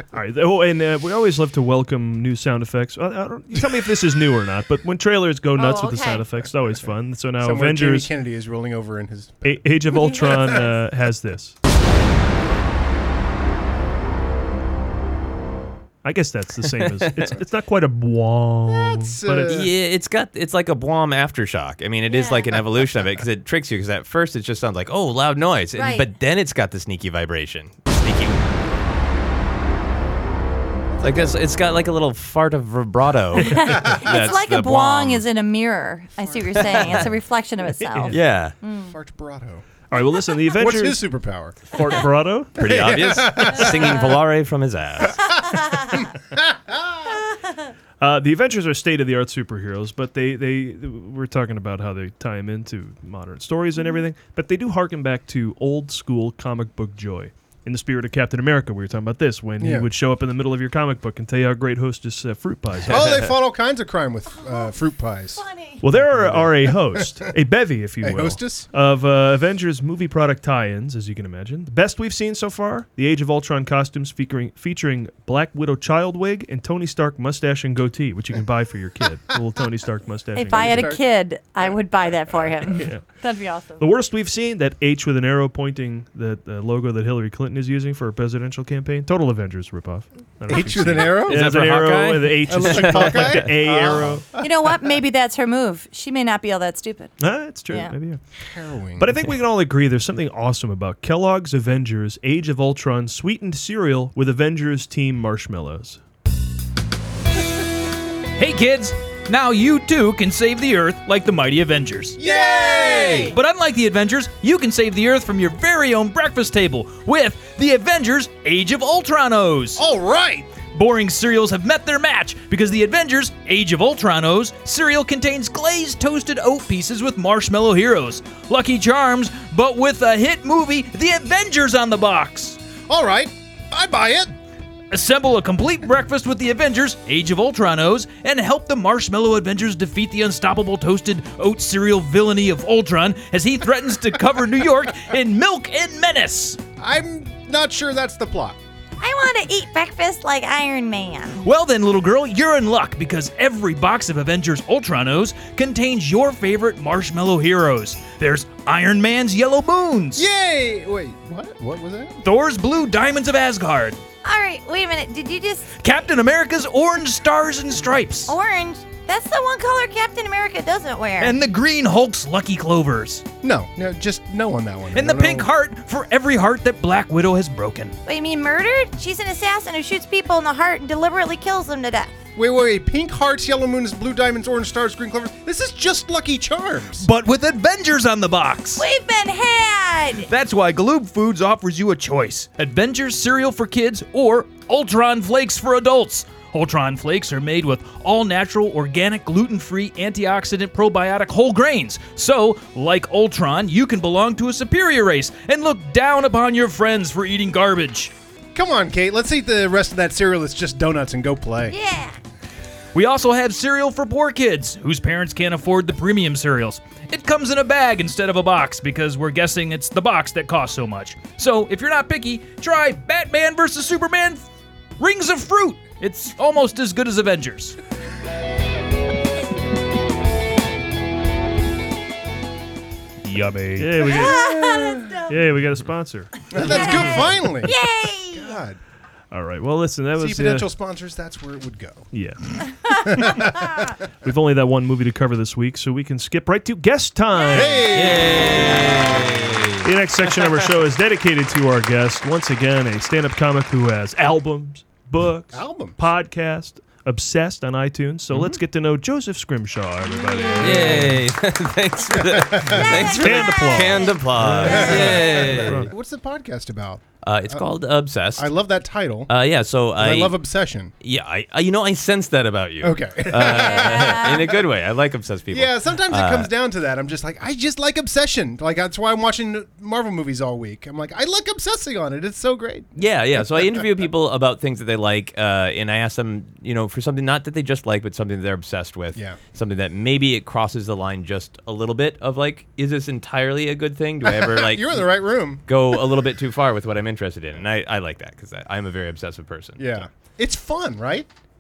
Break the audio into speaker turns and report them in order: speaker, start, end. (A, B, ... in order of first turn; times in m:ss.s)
0:00.1-0:08.1 A
0:03.6-0:03.9 B
0:05.6-0:06.2 C
0:07.4-0:10.7 B
0:09.4-0:11.6 A
0:16.0-0:19.7 A
0:16.8-0:17.2 D
0:18.7-0:19.7 B
0:19.5-0:28.4 D
0:22.1-0:22.5 C
0:25.8-0:26.1 C
0:30.9-0:31.4 B
0:31.0-0:35.2 D
0:33.4-0:38.9 C
0:33.9-0:34.4 B
0:36.2-0:37.1 B
0:36.7-0:37.1 D
0:37.8-0:38.2 A
0:38.1-0:38.6 D
0:38.9-0:39.8 B
0:39.9-0:41.0 A
0:40.5-0:42.0 B
0:41.7-0:42.7 A
0:42.6-0:45.2 D
0:42.6-0:44.2 B
0:45.5-0:46.0 C
0:45.9-0:47.2 B
0:48.0-1:03.2 A
0:59.6-0:59.9 B
1:02.9-1:05.4 B
1:04.3-1:04.8 C
1:05.4-1:05.8 C
1:05.8-1:21.0 A
1:06.0-1:07.3 B
1:08.0-1:08.7 B
1:20.4-1:23.9 C
1:20.5-1:21.0 B
1:22.8-1:23.0 A
1:23.8-1:34.3 A
1:30.5-1:31.5 B
1:31.3-1:32.4 E
1:32.5-1:34.5 B
1:32.6-1:34.0 D
1:34.4-1:37.1 C
1:37.2-1:38.2 A
1:37.7-1:38.0 C
1:38.4-1:39.3 B
1:39.0-1:46.0 A
1:48.4-1:52.2 E
1:52.2-1:53.4 B
1:52.2-1:53.3 C
1:53.0-1:59.8 E
1:59.8-2:00.5 B
2:00.7-2:12.6 E
2:12.9-2:14.3 B
2:14.9-2:26.6 E
2:26.8-2:28.6 B
2:29.0-2:31.4 C
2:31.4-2:40.3 E
2:40.2-2:42.2 B
2:42.2-2:44.0 E
2:44.2-2:45.7 C
2:45.8-2:48.3 E
2:48.3-2:51.4 C
2:51.2-2:53.2 E
2:53.4-2:55.5 B
2:55.0-2:58.0 E
2:58.0-3:02.1 C
3:02.4-3:07.1 B
3:07.0-3:08.8 E
3:08.8-3:10.3 C
3:10.3-3:28.1 E
3:28.5-3:31.8 B
3:31.7-3:32.2 C
3:32.9-3:44.5 E
3:45.0-3:47.8 E
3:53.2-3:54.2 E
3:53.8-3:54.7 A
3:54.1-3:55.2 C
3:54.4-3:55.1 B
3:55.2-3:56.5 A
3:56.5-3:57.7 B
3:56.5-3:58.5 C
3:58.3-3:58.8 B
3:59.3-4:00.7 A
4:00.2-4:02.1 B
4:02.1-4:03.4 A
4:03.1-4:03.8 B
4:04.2-4:07.9 A
4:07.4-4:07.8 C
4:07.5-4:09.1 B
4:07.9-4:09.8 D
4:09.8-4:21.2 A
4:15.5-4:16.0 B
4:18.3-4:18.6 D
4:20.6-4:25.8 D
4:20.7-4:21.0 B
4:22.1-4:23.1 B
4:22.9-4:25.2 C
4:23.1-4:25.9 A
4:24.6-4:27.7 B
4:27.2-4:28.5 D
4:28.4-4:29.3 B
4:29.3-4:30.4 D
4:30.0-4:30.9 B
4:31.0-4:36.5 D
4:32.8-4:34.6 B
4:33.4-4:34.5 C
4:35.5-4:42.9 B
4:43.0-4:55.0 D
4:49.1-4:49.4 B
4:54.2-4:56.2 B
4:55.7-5:00.0 D
4:59.8-5:01.3 B